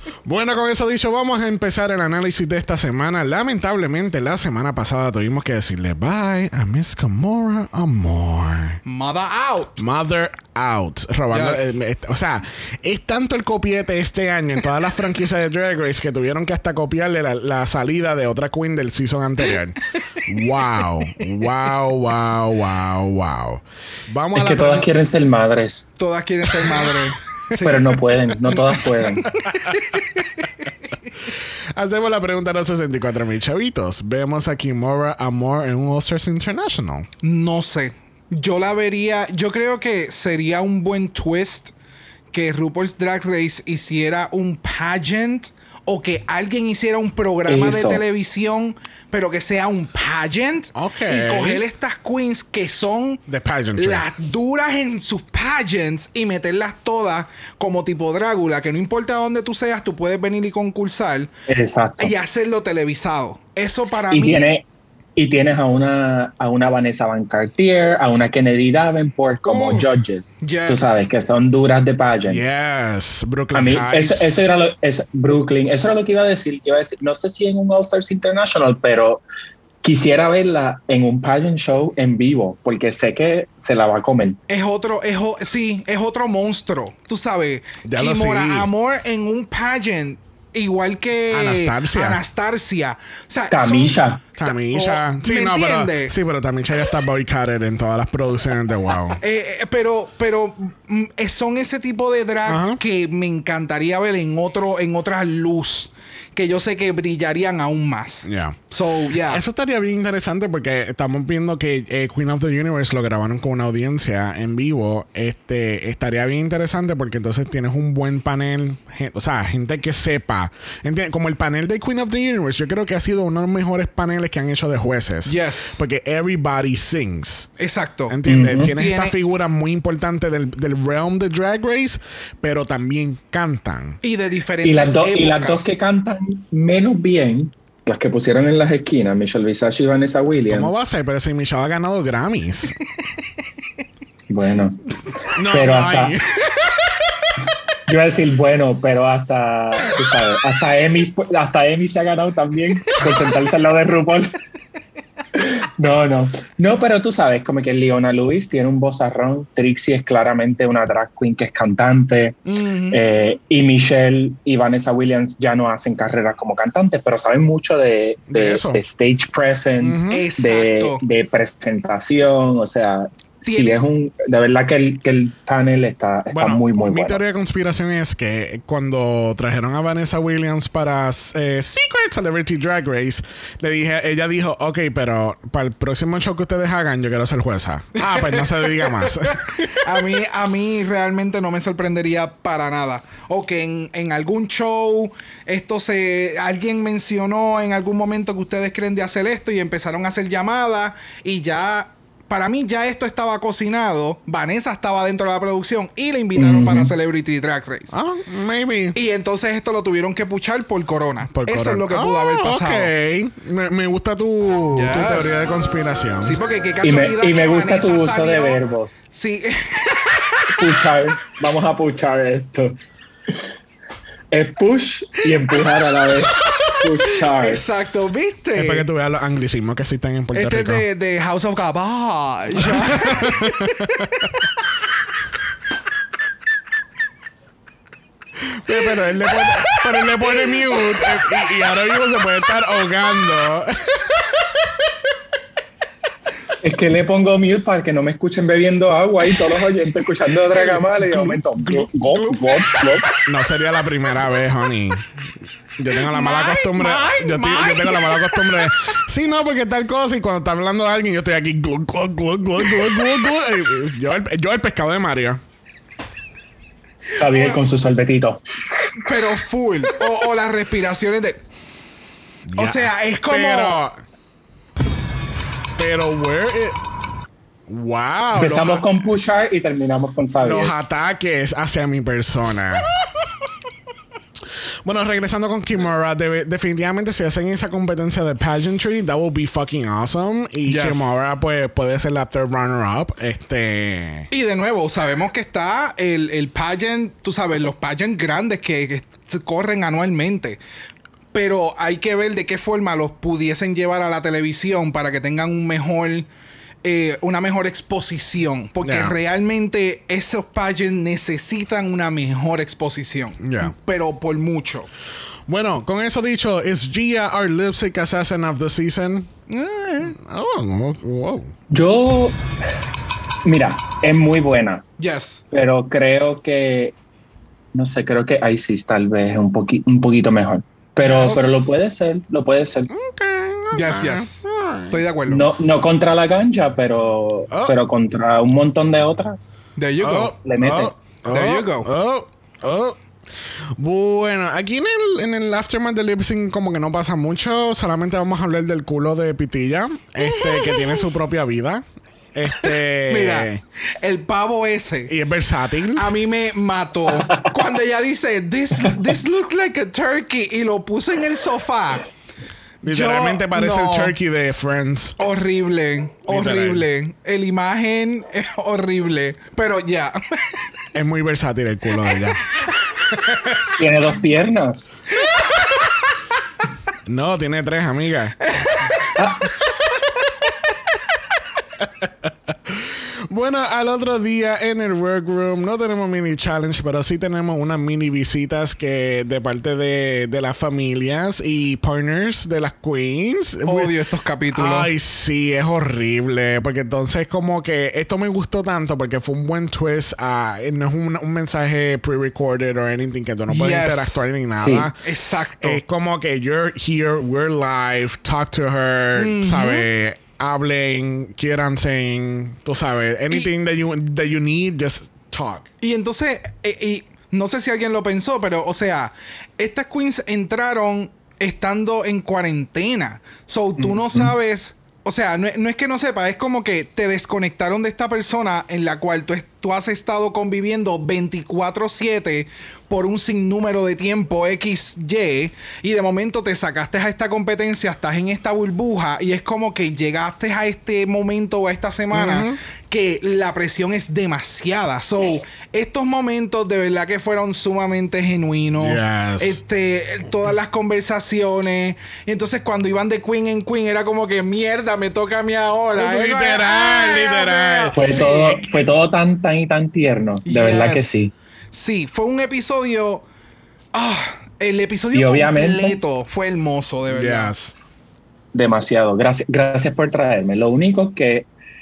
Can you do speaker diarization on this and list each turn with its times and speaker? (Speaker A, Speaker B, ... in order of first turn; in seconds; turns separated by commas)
Speaker A: 0.2-8.8, Speaker B: 8.8-9.8, Speaker A: 9.8-24.9, Speaker B: 11.3-11.8, Speaker C: 24.3-25.9, Speaker B: 26.0-30.0, Speaker C: 27.6-29.3, Speaker A: 31.8-37.1, Speaker B: 37.2-41.7, Speaker B: 42.3-53.2, Speaker C: 47.5-48.0, Speaker A: 50.7-51.6, Speaker A: 53.3-54.0, Speaker B: 53.8-61.3, Speaker C: 61.5-62.1, Speaker B: 62.0-64.5, Speaker C: 64.1-72.4, Speaker B: 69.5-69.8, Speaker B: 70.4-71.0, Speaker A: 72.3-74.4, Speaker C: 73.5-79.2, Speaker C: 79.8-84.4, Speaker B: 84.5-96.1, Speaker A: 87.8-88.7, Speaker A: 91.3-92.2, Speaker C: 93.5-94.2, Speaker A: 94.4-99.2, Speaker B: 99.2-109.4, Speaker A: 102.5-102.8, Speaker A: 108.2-108.6, Speaker A: 109.2-127.5, Speaker B: 125.2-125.8, Speaker B: 127.6-128.2, Speaker A: 128.1-134.0, Speaker C: 128.2-128.7, Speaker B: 128.7-129.1, Speaker B: 134.0-135.8, Speaker C: 134.6-140.8, Speaker A: 140.5-142.8, Speaker C: 144.3-144.8, Speaker A: 145.3-146.9, Speaker C: 145.5-146.1, Speaker C: 147.9-154.3, Speaker C: 155.3-162.4, Speaker B: 162.4-163.0, Speaker C: 162.9-177.2, Speaker A: 168.3-168.8, Speaker A: 169.8-170.2, Speaker B: 170.1-171.0, Speaker B: 173.4-173.9, Speaker A: 176.3-189.8, Speaker B: 188.0-208.0, Speaker C: 206.3-206.9, Speaker A: 207.9-209.0, Speaker B: 208.9-212.9, Speaker A: 211.3-216.4, Speaker B: 214.7-215.4, Speaker B: 216.2-218.6, Speaker C: 216.8-219.0, Speaker B: 219.1-220.7, Speaker C: 220.5-222.8, Speaker C: 224.3-227.6, Speaker B: 226.7-228.8, Speaker A: 228.5-230.8, Speaker B: 230.3-234.2, Speaker A: 232.6-234.3, Speaker A: 238.4-244.1, Speaker B: 239.4-241.2, Speaker C: 246.6-253.1, Speaker B: 250.5-253.0, Speaker A: 253.2-255.1, Speaker A: 255.8-265.4, Speaker B: 256.0-258.6, Speaker C: 267.1-269.1, Speaker B: 267.2-267.6, Speaker B: 269.0-271.4, Speaker A: 272.5-274.0, Speaker B: 272.6-273.8, Speaker A: 275.8-276.8, Speaker A: 277.7-278.8, Speaker C: 278.3-280.7, Speaker A: 280.4-282.9, Speaker A: 284.8-294.3, Speaker B: 290.6-291.1, Speaker B: 294.3-300.6, Speaker B: 301.3-306.3, Speaker B: 306.8-314.9, Speaker A: 308.8-309.1, Speaker A: 313.4-313.7, Speaker A: 315.5-319.3, Speaker B: 319.5-320.2, Speaker A: 320.0-321.5, Speaker C: 321.7-322.4, Speaker C: 323.4-324.8, Speaker B: 325.0-325.4, Speaker C: 325.5-326.9, Speaker C: 327.7-332.9, Speaker B: 331.0-331.4, Speaker A: 331.1-331.4, Speaker A: 332.9-335.0, Speaker B: 333.7-335.5, Speaker C: 335.3-339.4, Speaker A: 337.5-337.8, Speaker B: 339.8-340.3, Speaker A: 340.0-343.0, Speaker C: 340.4-340.9, Speaker B: 341.3-341.9, Speaker A: 343.8-351.8, Speaker B: 350.3-351.0, Speaker A: 352.3-353.6, Speaker B: 352.6-355.1, Speaker A: 355.1-356.1, Speaker B: 355.9-362.1, Speaker A: 362.8-365.1, Speaker B: 362.9-364.1, Speaker B: 365.2-370.6, Speaker A: 366.3-366.8, Speaker A: 370.9-372.4, Speaker A: 373.1-373.7, Speaker C: 373.8-374.9, Speaker B: 375.2-375.9, Speaker A: 377.1-378.4, Speaker B: 378.4-379.2, Speaker C: 379.1-379.5, Speaker A: 381.8-393.9, Speaker B: 393.6-394.9, Speaker A: 394.5-404.9, Speaker B: 403.5-404.2, Speaker C: 404.6-404.9, Speaker B: 405.0-405.8, Speaker A: 405.6-415.6, Speaker B: 409.1-409.9, Speaker B: 415.8-458.8, Speaker C: 423.8-424.3, Speaker A: 442.1-442.6, Speaker A: 448.8-449.6, Speaker A: 456.0-458.6, Speaker C: 457.9-461.3, Speaker B: 460.4-463.2, Speaker B: 463.9-467.5, Speaker C: 465.1-466.0, Speaker A: 467.1-467.7, Speaker C: 468.5-471.5